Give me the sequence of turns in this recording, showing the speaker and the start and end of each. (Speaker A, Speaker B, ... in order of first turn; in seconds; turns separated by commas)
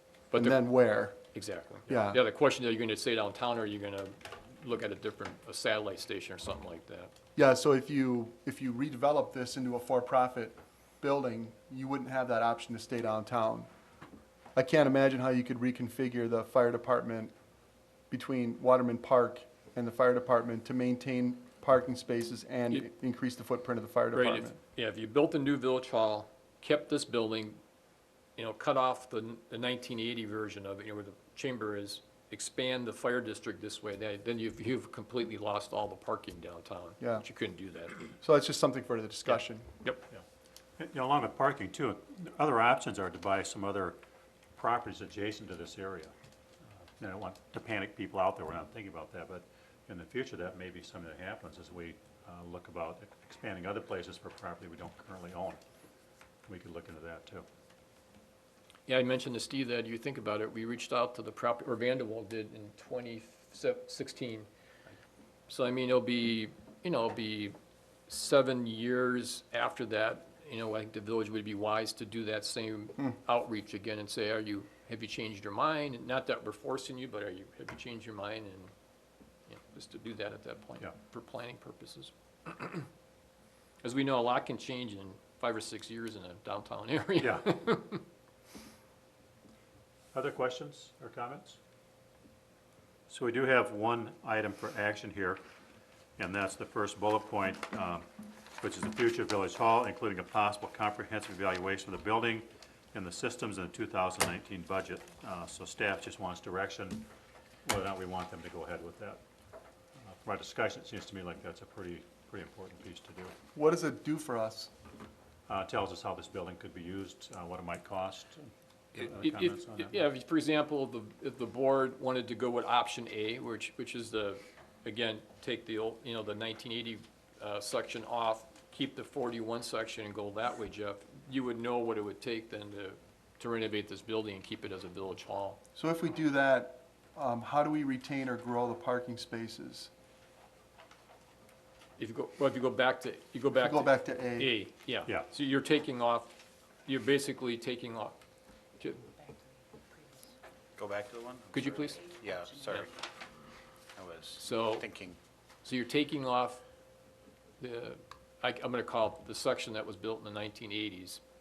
Speaker A: 0.3-1.3, Speaker B: 0.3-7.1, Speaker A: 1.9-2.2, Speaker A: 7.3-13.7, Speaker A: 14.5-17.3, Speaker A: 18.1-24.6, Speaker B: 24.1-27.6, Speaker B: 28.4-38.1, Speaker A: 37.0-37.3, Speaker A: 38.2-39.7, Speaker B: 39.3-40.0, Speaker C: 40.8-44.0, Speaker C: 44.5-46.1, Speaker C: 47.0-55.6, Speaker C: 56.4-57.5, Speaker B: 58.9-64.5, Speaker B: 65.5-67.5, Speaker B: 68.1-78.7, Speaker B: 79.5-82.9, Speaker B: 83.8-88.0, Speaker C: 87.2-87.6, Speaker C: 90.1-91.6, Speaker C: 93.1-95.4, Speaker C: 96.2-98.0, Speaker C: 98.6-107.1, Speaker C: 107.6-109.2, Speaker C: 110.0-113.3, Speaker A: 113.5-114.7, Speaker C: 115.5-120.1, Speaker B: 119.0-135.6, Speaker A: 135.8-139.9, Speaker B: 142.0-148.2, Speaker A: 143.6-144.5, Speaker B: 148.8-149.1, Speaker D: 150.8-152.9, Speaker B: 151.5-152.0, Speaker D: 153.9-155.2, Speaker B: 154.4-154.9, Speaker B: 155.6-156.6, Speaker B: 157.6-161.2